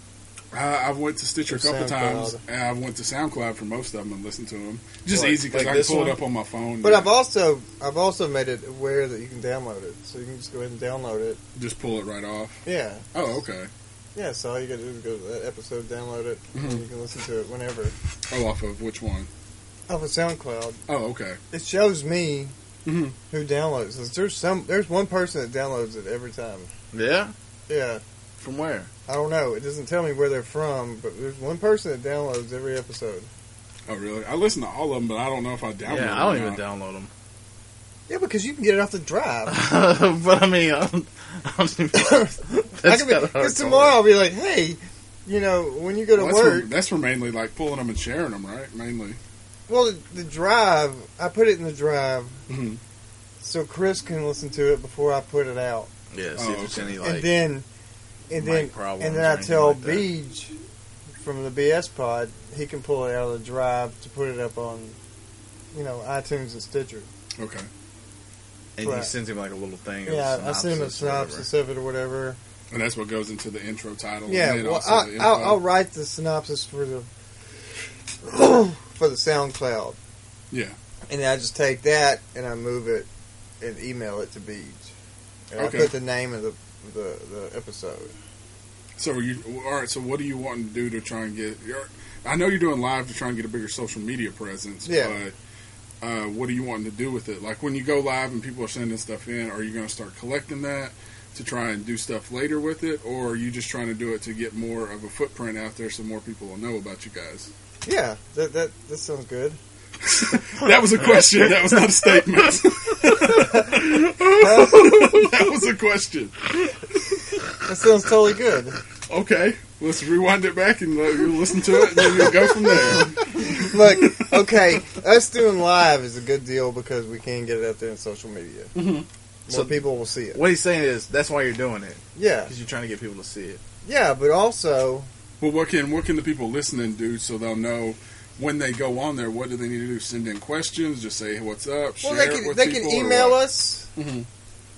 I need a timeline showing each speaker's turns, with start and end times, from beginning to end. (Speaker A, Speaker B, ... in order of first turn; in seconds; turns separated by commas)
Speaker A: 0.5-7.1, Speaker B: 1.5-2.4, Speaker B: 5.1-5.4, Speaker C: 5.4-6.2, Speaker B: 6.8-11.4, Speaker A: 11.6-12.6, Speaker B: 12.7-13.1, Speaker A: 13.1-13.7, Speaker B: 14.2-17.9, Speaker A: 16.6-16.8, Speaker A: 18.3-19.3, Speaker B: 19.9-20.8, Speaker A: 20.9-21.4, Speaker B: 21.5-22.5, Speaker A: 22.9-23.2, Speaker B: 23.3-26.7, Speaker C: 26.9-27.3, Speaker B: 27.7-28.0, Speaker C: 28.4-28.9, Speaker B: 29.1-33.3, Speaker A: 33.9-36.6, Speaker C: 35.9-37.1, Speaker B: 38.1-39.6, Speaker C: 39.5-44.0, Speaker B: 42.0-42.3, Speaker B: 42.8-46.7, Speaker A: 46.2-49.2, Speaker B: 49.7-52.4, Speaker A: 52.5-52.8, Speaker B: 53.4-55.9, Speaker C: 56.1-57.4, Speaker A: 56.4-56.9, Speaker B: 57.0-57.7, Speaker B: 58.3-60.6, Speaker C: 58.4-60.1, Speaker B: 61.2-65.0, Speaker B: 65.7-67.1, Speaker A: 67.4-67.7, Speaker C: 68.8-71.5, Speaker B: 68.8-69.1, Speaker B: 70.0-72.4, Speaker A: 72.7-75.6, Speaker B: 74.3-77.1, Speaker B: 78.2-80.0, Speaker A: 80.5-80.8, Speaker B: 81.1-83.1, Speaker B: 83.6-84.9, Speaker B: 85.5-88.1, Speaker A: 85.6-86.0, Speaker A: 89.0-95.3, Speaker B: 94.8-95.2, Speaker A: 96.0-107.5, Speaker B: 107.8-109.6, Speaker A: 110.0-116.5, Speaker B: 113.4-113.7, Speaker B: 114.4-114.8, Speaker C: 114.5-115.2, Speaker B: 117.7-118.8, Speaker A: 119.1-124.2, Speaker B: 123.5-128.7, Speaker A: 128.8-129.1, Speaker B: 129.5-130.4, Speaker C: 129.5-133.6, Speaker B: 132.2-132.5, Speaker B: 133.8-135.1, Speaker A: 135.4-143.4, Speaker B: 142.0-143.9, Speaker A: 144.0-144.3